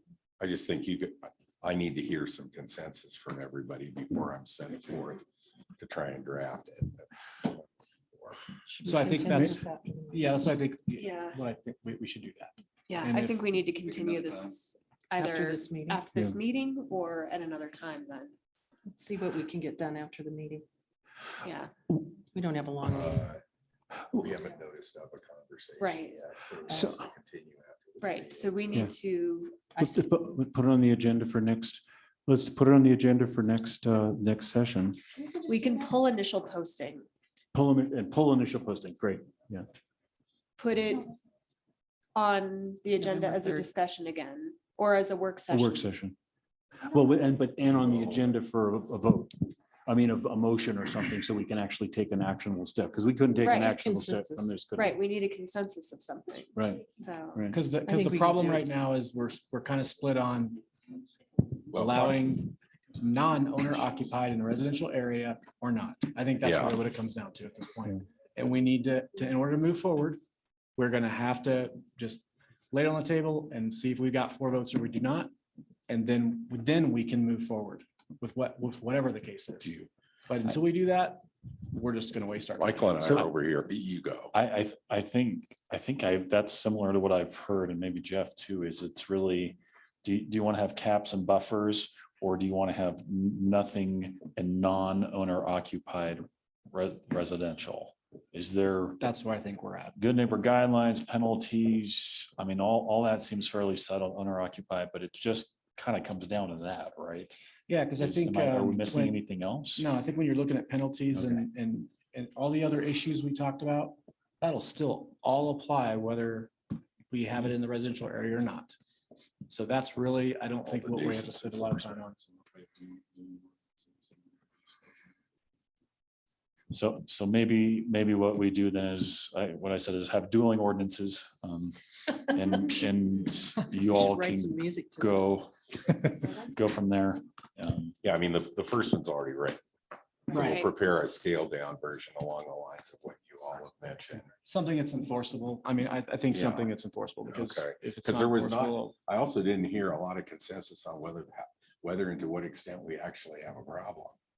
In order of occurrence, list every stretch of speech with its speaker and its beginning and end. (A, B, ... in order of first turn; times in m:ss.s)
0:00.4-0:05.2 A
0:05.8-0:08.4 A
0:08.7-0:10.4 B
0:08.8-0:13.4 C
0:11.0-0:11.4 D
0:12.9-0:18.3 D
0:15.1-0:16.0 B
0:18.9-0:20.6 B
0:21.4-0:21.7 D
0:22.3-0:23.3 B
0:22.8-0:23.4 A
0:24.1-0:28.9 A
0:25.8-0:26.2 D
0:26.7-0:26.9 B
0:26.7-0:27.1 E
0:28.0-0:29.7 D
0:29.7-0:30.1 B
0:29.8-0:35.0 E
0:35.4-0:37.0 D
0:37.5-0:39.6 E
0:40.6-0:41.1 D
0:42.1-0:45.8 D
0:43.2-0:43.6 B
0:45.5-0:46.2 E
0:46.9-0:49.4 E
0:49.9-0:55.0 E
0:53.4-0:53.8 D
0:53.7-0:54.5 B
0:54.7-0:57.4 D
0:56.6-0:57.6 E
0:57.5-1:00.6 C
0:57.8-0:58.7 B
1:01.7-1:02.3 A
1:01.7-1:10.2 C
1:06.4-1:06.8 A
1:10.8-1:15.3 C
1:15.9-1:23.2 C
1:22.6-1:24.3 A
1:24.3-1:39.0 F
1:39.0-1:40.0 C
1:40.0-1:47.4 F
1:47.7-1:49.2 C
1:48.0-1:49.9 F
1:49.8-1:56.5 C
1:51.1-1:51.4 F
1:57.1-1:58.7 C
1:59.5-2:02.2 C
2:00.6-2:02.0 A
2:06.7-2:17.9 F
2:13.8-2:15.3 B
2:18.0-2:19.6 A
2:20.3-2:24.3 A
2:20.3-2:20.7 D
2:20.3-2:20.6 B
2:24.4-2:28.9 C
2:26.3-2:26.7 A
2:27.2-2:34.2 A